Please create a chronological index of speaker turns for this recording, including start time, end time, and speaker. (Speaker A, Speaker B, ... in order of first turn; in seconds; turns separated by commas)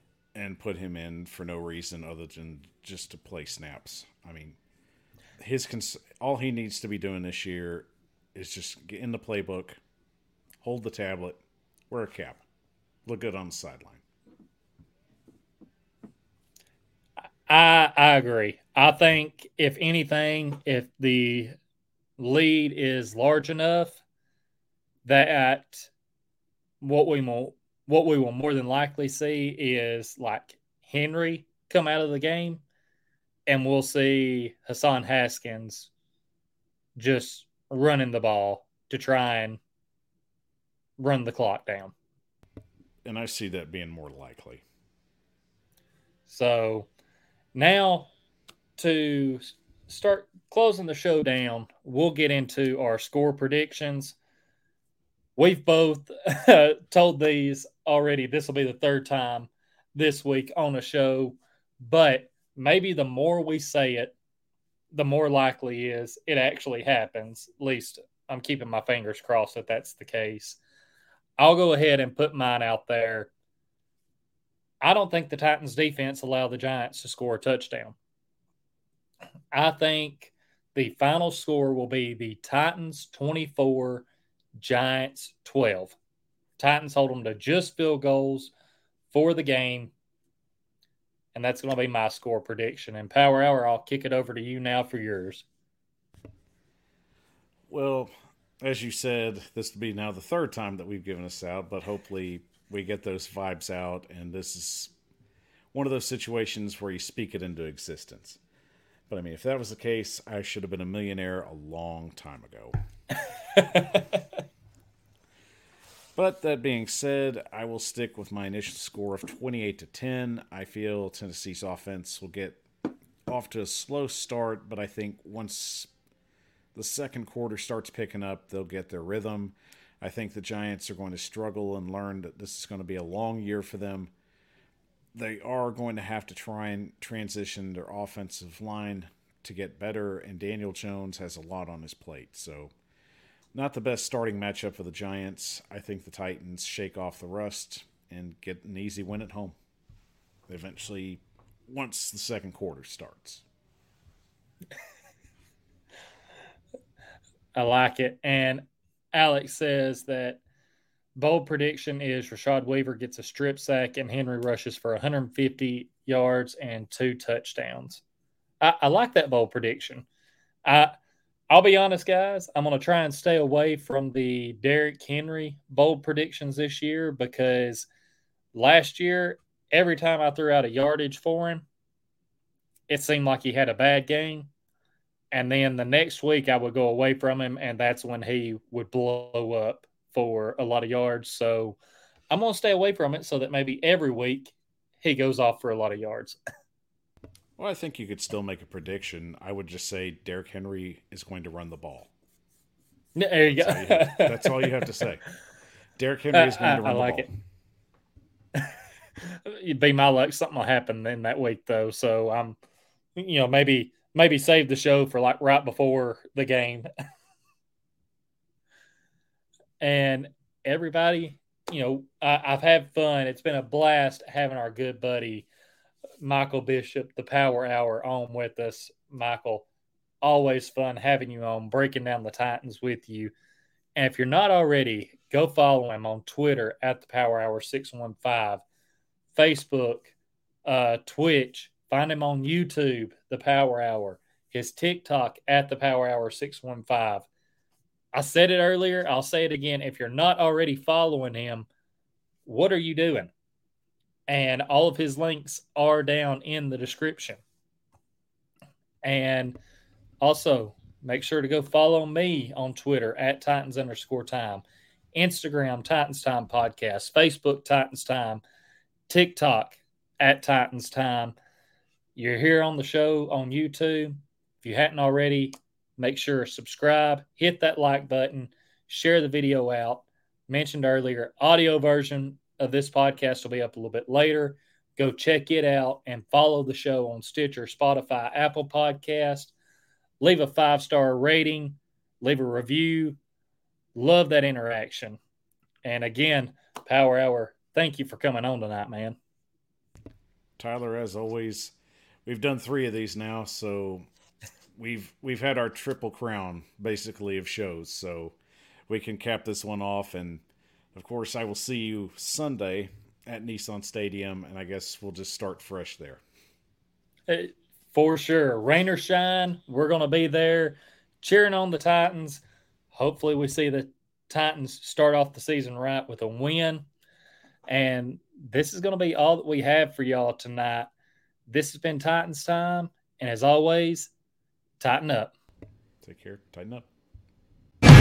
Speaker A: 0.3-4.6, Speaker A: 5.4-9.8, Speaker A: 10.6-11.4, Speaker A: 11.9-12.4, Speaker A: 13.1-14.0, Speaker B: 17.5-21.5, Speaker B: 22.2-24.0, Speaker B: 25.0-25.9, Speaker B: 26.8-32.6, Speaker B: 33.5-35.9, Speaker B: 37.0-39.6, Speaker B: 41.0-41.9, Speaker A: 43.0-44.6, Speaker B: 46.3-46.9, Speaker B: 47.5-48.1, Speaker B: 48.8-54.2, Speaker B: 55.4-64.1, Speaker B: 64.9-70.6, Speaker B: 71.4-73.3, Speaker B: 74.8-77.9, Speaker B: 79.5-84.0, Speaker B: 84.6-86.0, Speaker B: 86.6-88.5, Speaker B: 89.1-89.9, Speaker B: 91.3-95.5, Speaker A: 97.7-104.9, Speaker A: 105.7-108.4, Speaker A: 109.1-112.7, Speaker B: 113.5-114.2, Speaker A: 116.2-122.6, Speaker A: 123.2-125.9, Speaker A: 126.7-134.1, Speaker A: 135.1-142.7, Speaker A: 143.5-149.6, Speaker A: 150.5-153.4, Speaker B: 157.5-160.4, Speaker B: 161.1-168.0, Speaker B: 168.6-170.1, Speaker B: 170.6-170.9, Speaker B: 171.5-177.9, Speaker B: 178.5-181.6, Speaker B: 182.9-184.5, Speaker B: 185.3-191.8, Speaker B: 192.3-196.4, Speaker A: 197.6-202.1, Speaker B: 203.1-204.8, Speaker A: 203.4-205.2, Speaker A: 206.0-207.3, Speaker B: 206.3-207.3, Speaker B: 209.2-212.6, Speaker B: 213.2-216.9, Speaker B: 219.8-225.5, Speaker B: 226.2-229.7, Speaker B: 230.2-233.3, Speaker B: 233.9-238.6, Speaker B: 239.3-240.1, Speaker B: 240.6-247.3, Speaker B: 248.1-251.7, Speaker B: 252.4-253.3, Speaker B: 254.3-257.4, Speaker B: 259.0-259.6, Speaker B: 260.2-264.6, Speaker B: 265.1-268.4, Speaker B: 269.1-271.3, Speaker B: 272.1-289.5, Speaker B: 290.2-293.2, Speaker B: 293.9-295.2, Speaker B: 295.8-299.2, Speaker A: 300.6-301.7, Speaker A: 302.2-304.1, Speaker A: 304.8-308.4, Speaker A: 308.9-310.4, Speaker A: 310.9-316.2, Speaker B: 317.3-322.4, Speaker B: 322.9-326.9, Speaker B: 327.7-330.9, Speaker B: 331.5-334.1, Speaker B: 334.8-335.3, Speaker A: 336.0-336.9